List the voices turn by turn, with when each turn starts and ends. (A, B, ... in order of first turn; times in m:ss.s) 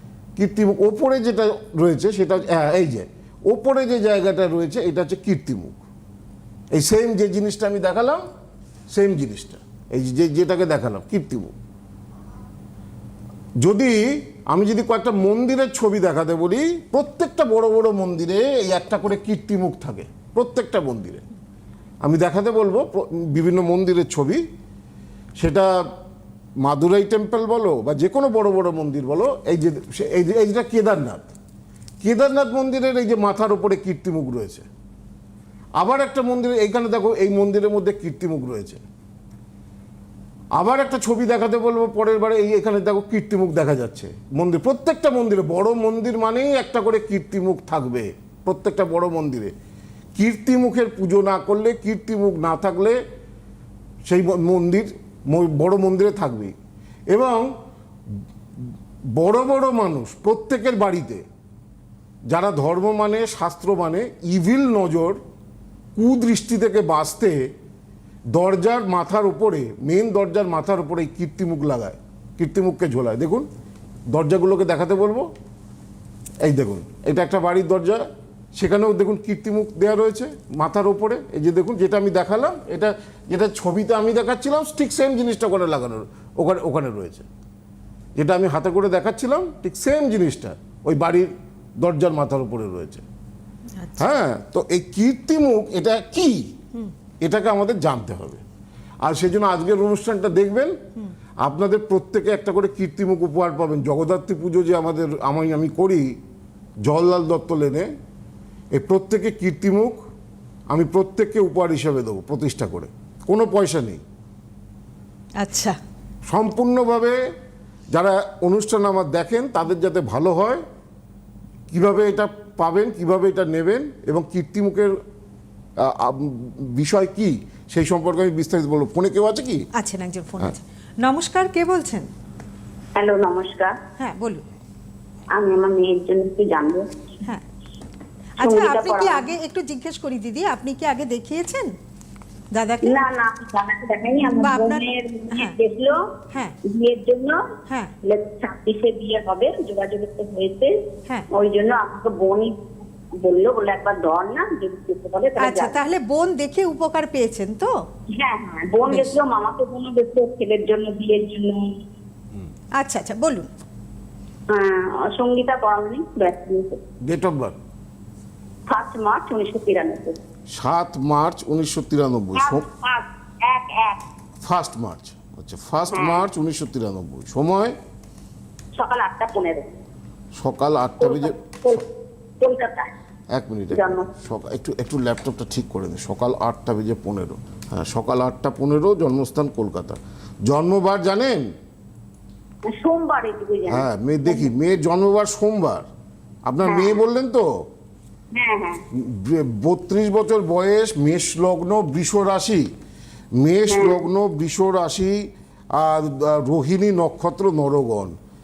0:00.4-0:05.8 A
0:06.7-0:08.2 A
0:08.9-0:11.6 A
0:13.6-0:21.2 A
0:22.0-0:24.4 A
0:25.4-0:25.7 A
0:26.6-0:31.3 A
0:32.0-0:34.7 A
0:35.8-0:38.8 A
0:40.6-0:49.5 A
0:50.2-0:53.0 A
0:54.0-0:56.6 A
0:57.1-0:57.5 A
0:58.6-1:01.3 A
1:02.3-1:05.2 A
1:06.0-1:07.4 A
1:08.3-1:13.5 A
1:14.1-1:15.3 A
1:16.4-1:18.0 A
1:18.6-1:27.3 A
1:28.2-1:33.0 A
1:33.8-1:34.1 B
1:34.0-1:36.5 A
1:37.2-1:38.4 A
1:39.0-1:40.8 A
1:41.4-1:46.2 A
1:46.8-1:47.9 A
1:48.7-1:50.0 A
1:50.7-1:54.0 A
1:55.4-1:55.8 B
1:56.3-1:57.2 A
1:57.9-2:00.6 A
2:01.7-2:05.0 A
2:05.8-2:09.6 A
2:09.7-2:12.1 B
2:13.0-2:13.8 C
2:14.0-2:14.4 B
2:15.3-2:17.0 C
2:18.4-2:21.7 B
2:18.4-2:19.3 C
2:22.5-2:23.0 B
2:22.8-2:26.0 C
2:24.3-2:25.6 B
2:26.6-2:27.4 C
2:28.0-2:30.8 C
2:31.3-2:35.8 C
2:35.4-2:37.7 B
2:38.1-2:41.8 C
2:38.9-2:39.2 B
2:42.8-2:43.5 B
2:44.5-2:46.8 C
2:47.0-2:47.6 A
2:48.7-2:50.2 C
2:50.5-2:52.6 A
2:52.4-2:54.0 C
2:54.4-2:57.8 A
2:55.9-2:56.2 C
2:58.8-2:59.7 C
3:00.4-3:01.8 A
3:01.0-3:01.9 C
3:02.4-3:02.9 C
3:03.3-3:11.5 A
3:03.7-3:04.1 C
3:12.7-3:14.5 C
3:13.7-3:15.9 A
3:16.5-3:17.5 A
3:16.6-3:17.0 C
3:18.3-3:18.8 C
3:18.9-3:22.7 A
3:23.4-3:28.2 A
3:23.7-3:24.0 C